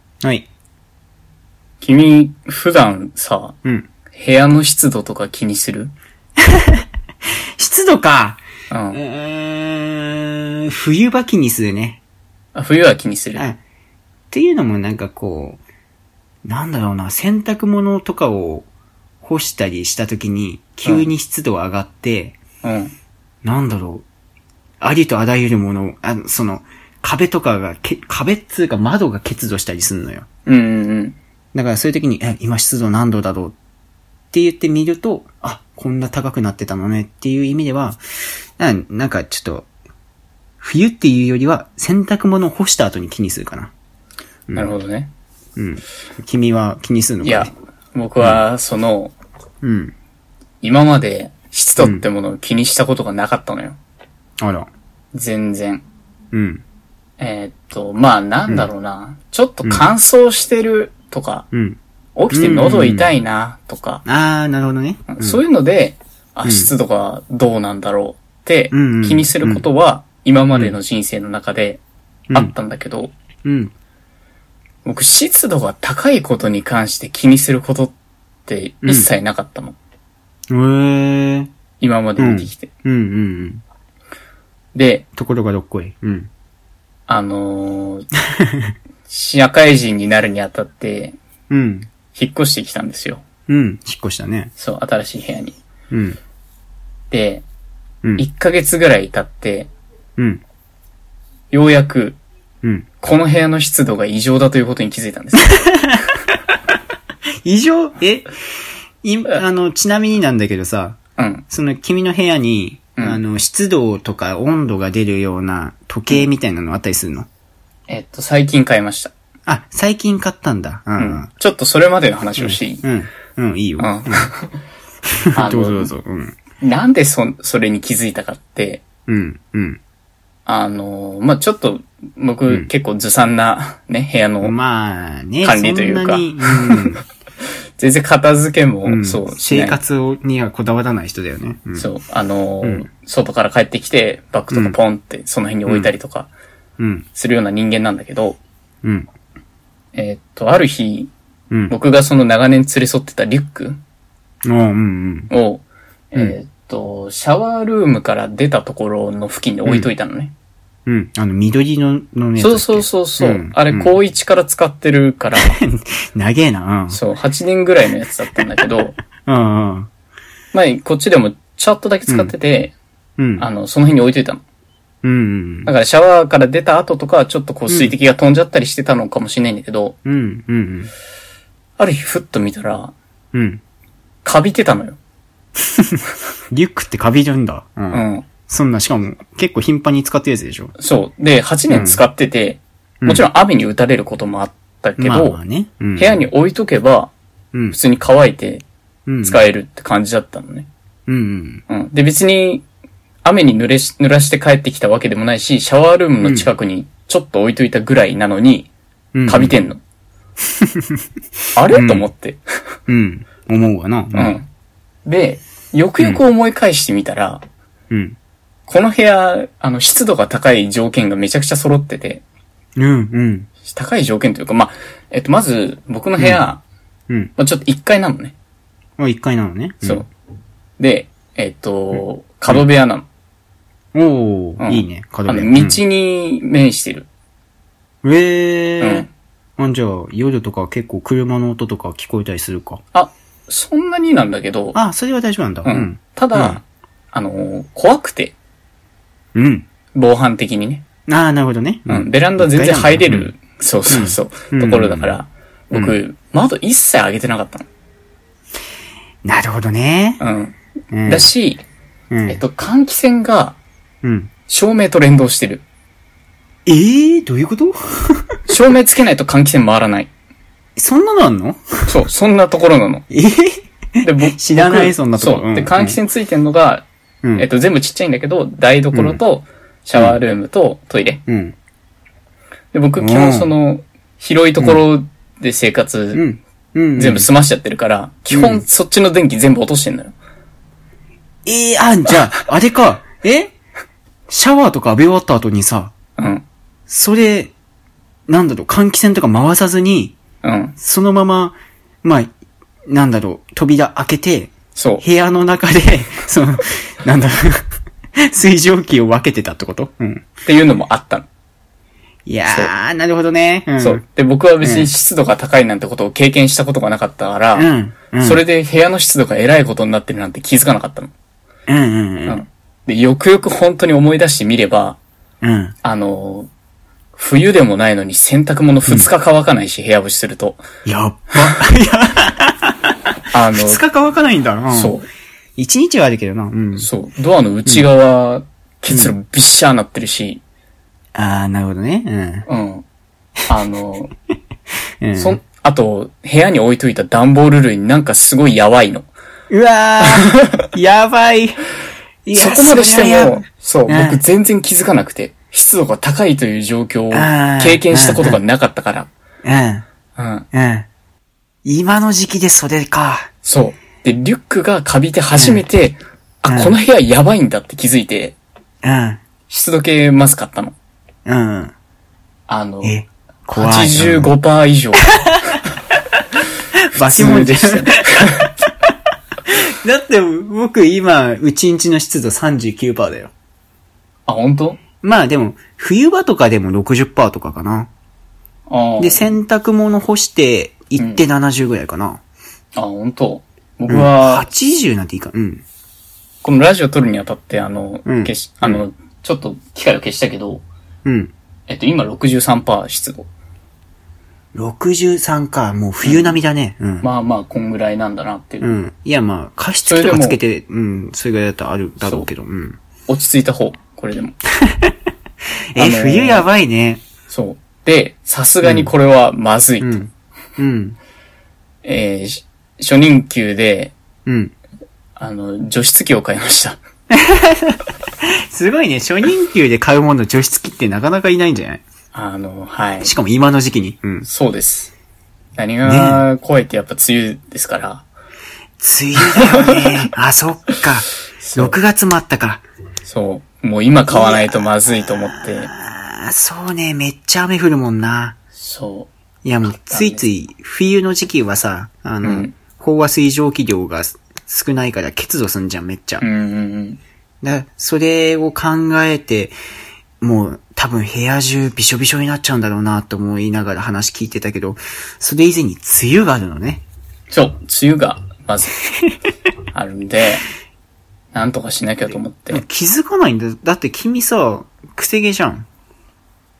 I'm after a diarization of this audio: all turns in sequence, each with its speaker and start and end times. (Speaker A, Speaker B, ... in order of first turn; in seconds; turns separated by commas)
Speaker A: 0.2-0.5, Speaker B: 1.8-3.5, Speaker A: 3.6-3.9, Speaker B: 4.1-5.9, Speaker A: 6.4-6.8, Speaker A: 7.6-8.4, Speaker B: 8.7-9.0, Speaker A: 8.9-12.0, Speaker B: 12.5-13.4, Speaker A: 14.3-15.6, Speaker A: 16.4-18.7, Speaker A: 19.2-22.4, Speaker B: 22.6-22.9, Speaker A: 23.4-24.0, Speaker A: 24.8-30.3, Speaker B: 30.4-31.2, Speaker A: 31.5-33.5, Speaker A: 34.3-38.0, Speaker A: 38.6-39.7, Speaker A: 40.6-43.7, Speaker B: 44.5-45.1, Speaker A: 45.5-47.5, Speaker B: 47.2-49.1, Speaker A: 49.6-49.9, Speaker B: 50.6-53.8, Speaker A: 51.8-52.0, Speaker A: 54.4-54.7, Speaker B: 55.1-55.8, Speaker A: 56.3-56.6, Speaker B: 57.2-61.5, Speaker A: 61.5-61.8, Speaker B: 62.1-64.0, Speaker A: 62.3-63.1, Speaker A: 64.0-65.4, Speaker B: 65.1-71.8, Speaker A: 66.4-66.7, Speaker A: 68.7-69.7, Speaker B: 72.3-73.1, Speaker A: 73.4-73.7, Speaker B: 74.8-77.9, Speaker B: 78.5-79.8, Speaker A: 78.8-79.1, Speaker A: 80.5-81.5, Speaker B: 81.8-82.7, Speaker A: 82.2-83.6, Speaker B: 84.7-85.0, Speaker A: 85.2-86.3, Speaker B: 87.1-88.1, Speaker A: 88.3-88.7, Speaker B: 89.1-91.2, Speaker A: 91.5-91.9, Speaker B: 92.1-93.2, Speaker A: 93.5-94.5, Speaker B: 94.6-95.6, Speaker A: 95.9-96.2, Speaker B: 97.1-97.4, Speaker B: 98.2-99.7, Speaker A: 100.2-100.4, Speaker B: 101.5-102.2, Speaker B: 103.0-105.7, Speaker A: 105.8-106.3, Speaker A: 107.4-108.3, Speaker A: 109.0-111.0, Speaker B: 111.2-111.4, Speaker A: 111.5-117.3, Speaker B: 117.9-119.1, Speaker A: 119.5-121.3, Speaker B: 121.0-122.8, Speaker A: 122.4-124.3, Speaker B: 123.8-124.5, Speaker A: 125.3-126.3, Speaker B: 125.3-125.9, Speaker B: 126.6-128.8, Speaker A: 129.1-129.8, Speaker B: 130.4-134.5, Speaker A: 134.4-137.0, Speaker B: 135.4-136.8, Speaker B: 137.8-139.8, Speaker A: 138.8-141.9, Speaker B: 141.8-146.3, Speaker A: 144.5-144.8, Speaker A: 145.7-145.9, Speaker A: 146.8-147.1, Speaker B: 147.1-148.4, Speaker B: 149.9-151.1, Speaker B: 151.7-153.8, Speaker A: 154.4-155.3, Speaker B: 155.3-160.3, Speaker A: 159.7-159.9, Speaker A: 160.8-164.0, Speaker B: 162.4-165.6, Speaker A: 165.4-167.0, Speaker B: 166.9-169.0, Speaker A: 169.2-169.9, Speaker B: 170.5-172.7, Speaker A: 172.1-172.3, Speaker A: 173.2-173.5, Speaker B: 173.4-174.4, Speaker A: 175.0-175.7, Speaker B: 175.7-179.9, Speaker A: 180.0-180.9, Speaker B: 181.8-182.9, Speaker A: 183.3-183.6, Speaker B: 184.2-185.0, Speaker A: 185.8-190.7, Speaker B: 187.9-188.3, Speaker B: 190.8-195.4, Speaker A: 191.7-192.0, Speaker A: 193.0-193.3, Speaker A: 195.0-196.2, Speaker B: 195.9-197.1, Speaker A: 197.5-197.8, Speaker B: 197.7-198.6, Speaker A: 199.1-199.4, Speaker B: 199.2-200.7, Speaker A: 201.1-201.6, Speaker B: 201.7-202.6, Speaker B: 203.2-208.7, Speaker A: 206.2-206.5, Speaker A: 209.1-209.6, Speaker B: 209.2-209.8, Speaker B: 211.5-212.4, Speaker A: 211.7-212.1, Speaker A: 212.9-214.4, Speaker B: 214.1-214.5, Speaker B: 215.1-217.4, Speaker A: 217.9-218.2, Speaker B: 218.7-222.2, Speaker A: 222.8-223.5, Speaker B: 223.7-226.6, Speaker A: 226.2-226.4, Speaker B: 227.4-228.3, Speaker A: 229.0-230.0, Speaker B: 230.8-233.1, Speaker A: 231.9-232.6, Speaker A: 233.9-235.8, Speaker B: 234.6-237.1, Speaker A: 238.0-242.8, Speaker B: 238.8-239.1, Speaker B: 242.9-244.8, Speaker A: 244.7-246.6, Speaker B: 245.6-248.3, Speaker A: 249.3-249.7, Speaker B: 249.9-250.8, Speaker A: 251.1-253.3, Speaker B: 251.9-257.7, Speaker A: 253.9-255.1, Speaker A: 255.7-256.0, Speaker A: 259.2-260.2, Speaker B: 260.2-261.6, Speaker A: 260.9-261.3, Speaker A: 262.1-262.4, Speaker B: 262.3-263.6, Speaker A: 264.0-264.3, Speaker B: 264.5-265.6, Speaker A: 266.6-268.4, Speaker B: 268.5-270.1, Speaker A: 270.8-271.9, Speaker B: 271.9-273.0, Speaker A: 273.1-276.0, Speaker B: 274.0-281.2, Speaker A: 278.9-279.2, Speaker A: 279.9-280.2, Speaker A: 281.3-281.6, Speaker B: 282.7-286.2, Speaker A: 283.0-283.5, Speaker A: 286.1-287.3, Speaker B: 287.0-290.1, Speaker A: 288.3-288.6, Speaker A: 291.4-293.5, Speaker A: 294.3-295.9, Speaker B: 296.2-296.4, Speaker A: 296.9-297.5, Speaker A: 298.3-300.1, Speaker B: 300.4-300.7, Speaker A: 300.8-302.3, Speaker A: 302.9-310.3, Speaker B: 304.7-305.0, Speaker B: 310.4-311.2, Speaker A: 312.2-314.0, Speaker B: 313.8-317.7, Speaker A: 314.6-314.9, Speaker A: 317.5-318.4, Speaker B: 318.2-321.1, Speaker A: 321.7-322.4, Speaker B: 322.2-325.0, Speaker A: 325.4-325.8, Speaker B: 325.8-326.5, Speaker B: 327.1-330.6, Speaker A: 330.8-332.9, Speaker B: 333.3-333.8, Speaker A: 333.5-335.0, Speaker B: 334.7-335.1, Speaker A: 335.6-336.9, Speaker B: 336.8-340.4, Speaker A: 338.9-339.1, Speaker A: 341.1-342.5, Speaker B: 342.5-342.8, Speaker B: 343.5-344.1, Speaker A: 345.0-345.4, Speaker B: 345.1-349.1, Speaker A: 349.5-351.6, Speaker B: 350.0-350.4, Speaker A: 352.2-354.2, Speaker B: 352.3-359.1, Speaker A: 357.1-358.4, Speaker A: 359.4-359.8, Speaker B: 360.1-360.5, Speaker A: 360.5-360.9, Speaker A: 361.6-363.3, Speaker B: 363.4-368.4, Speaker A: 365.4-365.6, Speaker A: 366.5-366.8, Speaker A: 368.8-369.2, Speaker B: 369.5-370.7, Speaker A: 371.2-371.7, Speaker B: 372.5-373.0, Speaker A: 372.8-374.3, Speaker B: 373.6-375.1, Speaker A: 376.9-378.5, Speaker B: 377.0-378.5, Speaker A: 379.5-383.3, Speaker B: 384.3-384.8, Speaker A: 385.0-387.9, Speaker B: 388.7-389.3, Speaker A: 389.0-392.2, Speaker B: 391.0-391.2, Speaker B: 392.8-394.5, Speaker A: 393.9-395.6, Speaker B: 396.4-400.6, Speaker A: 398.1-398.8, Speaker A: 401.0-401.3, Speaker B: 401.7-403.3, Speaker A: 404.5-407.1, Speaker B: 406.0-406.4, Speaker B: 407.0-408.7, Speaker A: 408.6-412.8, Speaker B: 409.8-410.4, Speaker B: 412.0-412.3, Speaker B: 413.1-414.4, Speaker A: 414.6-414.9, Speaker A: 415.7-417.0, Speaker B: 415.8-416.5, Speaker B: 417.3-420.0, Speaker A: 418.6-418.9, Speaker A: 419.8-421.0, Speaker B: 421.8-423.9, Speaker A: 424.2-424.5, Speaker B: 425.2-426.8, Speaker A: 427.1-431.8, Speaker B: 432.1-433.1, Speaker A: 433.0-434.3, Speaker B: 434.2-434.9, Speaker B: 435.6-438.1, Speaker A: 435.8-436.2, Speaker A: 438.8-442.6, Speaker B: 439.2-440.0, Speaker B: 441.4-441.8, Speaker B: 443.0-445.7, Speaker A: 444.1-448.4, Speaker B: 448.6-449.1, Speaker A: 449.4-456.2, Speaker B: 449.7-450.2, Speaker B: 452.2-452.5, Speaker B: 456.2-457.0, Speaker A: 457.4-459.5, Speaker A: 460.2-466.8, Speaker B: 467.3-468.7, Speaker B: 469.7-470.4, Speaker B: 471.3-472.6, Speaker A: 472.5-475.6